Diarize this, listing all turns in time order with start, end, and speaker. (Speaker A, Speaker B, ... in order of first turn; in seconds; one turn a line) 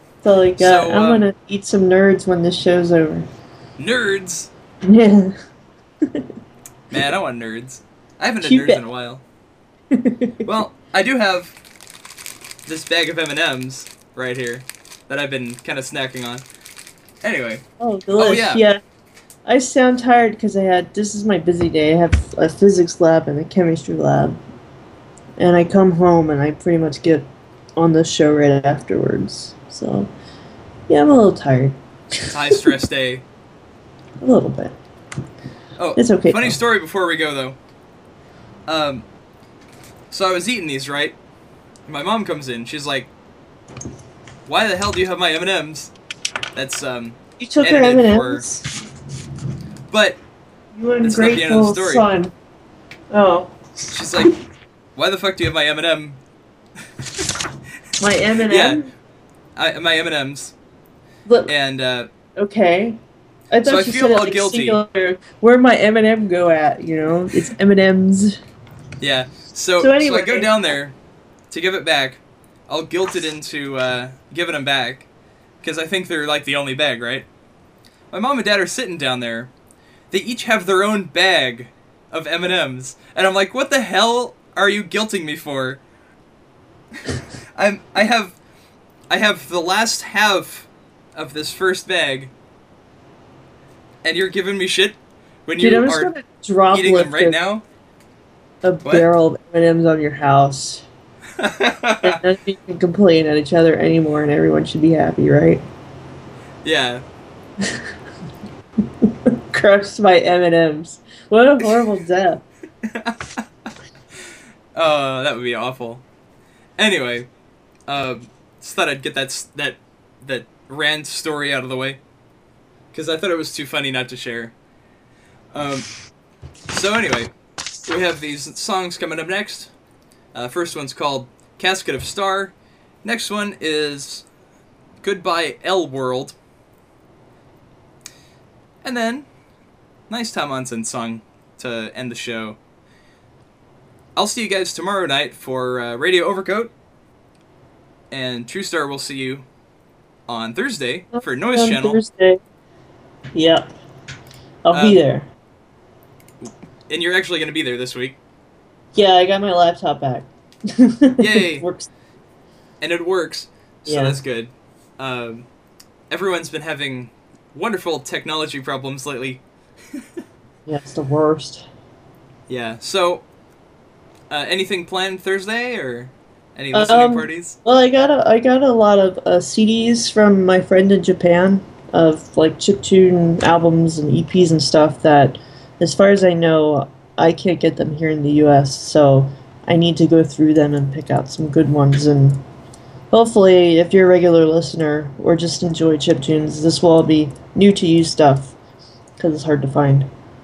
Speaker A: 0.2-3.3
Speaker B: 0.6-1.3
Speaker B: 3.8-4.5
Speaker A: 4.8-5.4
Speaker B: 6.9-9.2
Speaker A: 8.4-8.8
Speaker A: 9.9-10.4
Speaker B: 10.4-11.6
Speaker B: 12.7-16.4
Speaker B: 17.2-17.6
Speaker A: 17.8-18.8
Speaker B: 18.2-18.6
Speaker A: 19.5-24.4
Speaker A: 25.4-27.3
Speaker A: 27.8-30.1
Speaker A: 30.9-32.3
Speaker B: 32.3-33.2
Speaker A: 34.2-34.8
Speaker B: 35.8-37.6
Speaker A: 36.0-36.6
Speaker B: 38.7-39.0
Speaker B: 40.1-41.2
Speaker B: 41.9-43.1
Speaker B: 44.5-45.9
Speaker B: 46.5-48.4
Speaker A: 47.4-48.6
Speaker B: 49.9-50.2
Speaker A: 50.7-52.3
Speaker B: 51.0-52.0
Speaker A: 53.1-53.6
Speaker B: 53.9-54.3
Speaker B: 55.0-56.2
Speaker A: 58.0-58.9
Speaker B: 58.5-58.8
Speaker B: 59.6-60.5
Speaker A: 61.3-61.5
Speaker B: 61.5-62.1
Speaker A: 62.4-63.0
Speaker A: 63.5-68.4
Speaker B: 63.6-64.8
Speaker B: 69.0-71.0
Speaker A: 69.8-70.5
Speaker B: 71.5-75.1
Speaker B: 75.6-77.3
Speaker B: 78.1-79.5
Speaker B: 80.1-85.8
Speaker B: 87.6-88.4
Speaker B: 89.1-92.3
Speaker B: 94.0-96.1
Speaker A: 95.6-97.4
Speaker B: 96.7-97.7
Speaker A: 98.6-100.8
Speaker B: 101.4-102.2
Speaker A: 102.0-105.6
Speaker B: 106.6-107.0
Speaker A: 107.6-107.9
Speaker A: 109.0-112.4
Speaker B: 112.8-113.7
Speaker B: 114.8-116.0
Speaker B: 116.8-117.3
Speaker B: 117.9-122.0
Speaker B: 122.9-124.5
Speaker B: 125.5-125.9
Speaker B: 126.7-127.3
Speaker B: 127.8-129.7
Speaker B: 130.3-132.5
Speaker B: 133.0-134.3
Speaker B: 135.0-136.4
Speaker B: 138.8-139.3
Speaker B: 140.1-142.6
Speaker B: 144.2-146.7
Speaker B: 148.1-149.5
Speaker B: 150.3-152.0
Speaker A: 151.2-152.4
Speaker A: 153.3-153.7
Speaker A: 154.7-155.2
Speaker B: 154.7-155.0
Speaker B: 156.4-158.2
Speaker A: 158.9-161.9
Speaker B: 161.2-161.6
Speaker B: 162.8-165.5
Speaker A: 163.9-164.2
Speaker B: 166.1-169.4
Speaker A: 170.7-171.7
Speaker B: 172.5-173.2
Speaker B: 174.3-177.6
Speaker A: 176.7-192.4
Speaker A: 193.1-198.5
Speaker A: 199.2-200.1